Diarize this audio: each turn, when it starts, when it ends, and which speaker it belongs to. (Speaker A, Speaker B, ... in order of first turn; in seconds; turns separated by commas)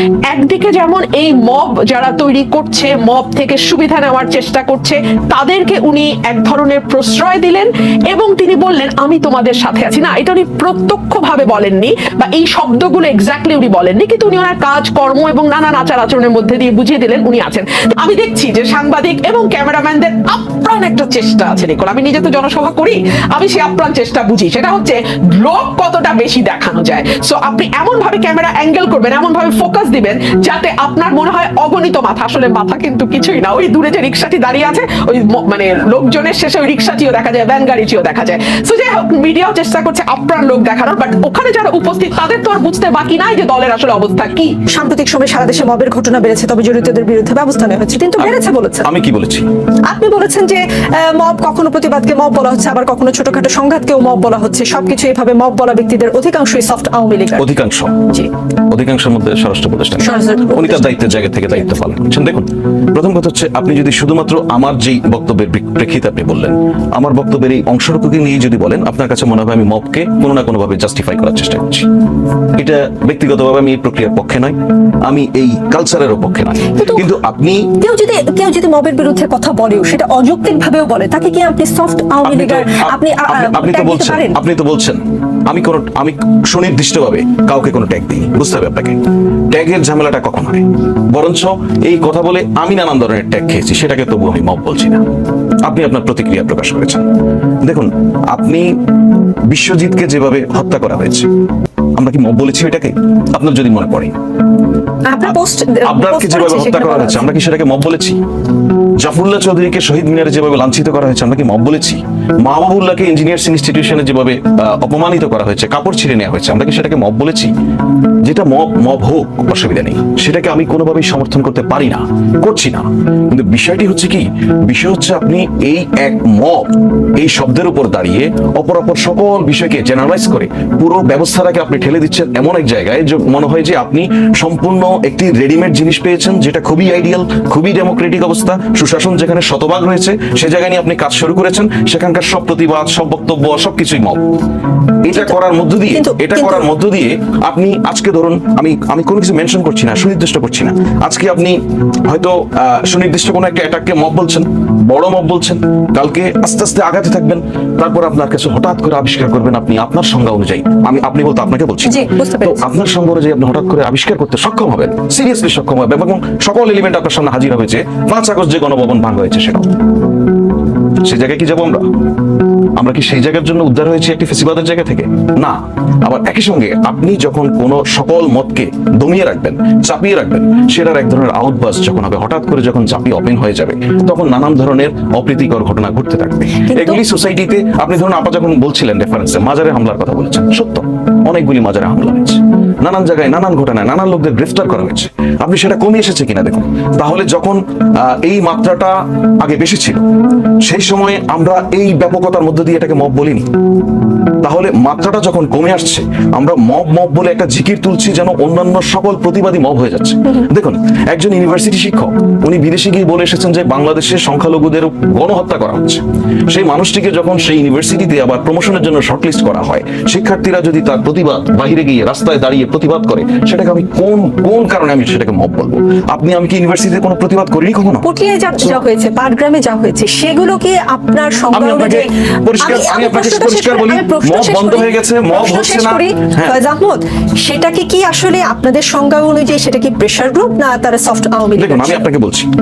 Speaker A: 0.3-44.5, Speaker B: 44.7-48.9, Speaker C: 48.2-49.5, Speaker B: 49.9-57.5, Speaker C: 57.4-58.1, Speaker C: 58.7-71.9, Speaker B: 60.0-61.5, Speaker C: 72.6-77.7, Speaker B: 76.8-77.0, Speaker B: 77.7-84.4, Speaker C: 82.2-95.0, Speaker C: 95.7-97.1, Speaker C: 97.6-98.7, Speaker C: 99.5-101.3, Speaker C: 102.0-104.1, Speaker B: 105.1-107.3, Speaker C: 105.2-108.2, Speaker C: 109.0-117.5, Speaker C: 118.2-144.3, Speaker C: 145.0-169.7, Speaker B: 145.1-146.7, Speaker B: 161.8-162.6, Speaker C: 171.1-171.8, Speaker C: 172.8-200.0, Speaker B: 186.7-187.0, Speaker C: 200.6-203.4, Speaker C: 204.4-228.0, Speaker B: 228.0-242.0, Speaker C: 231.5-236.6, Speaker C: 241.6-242.5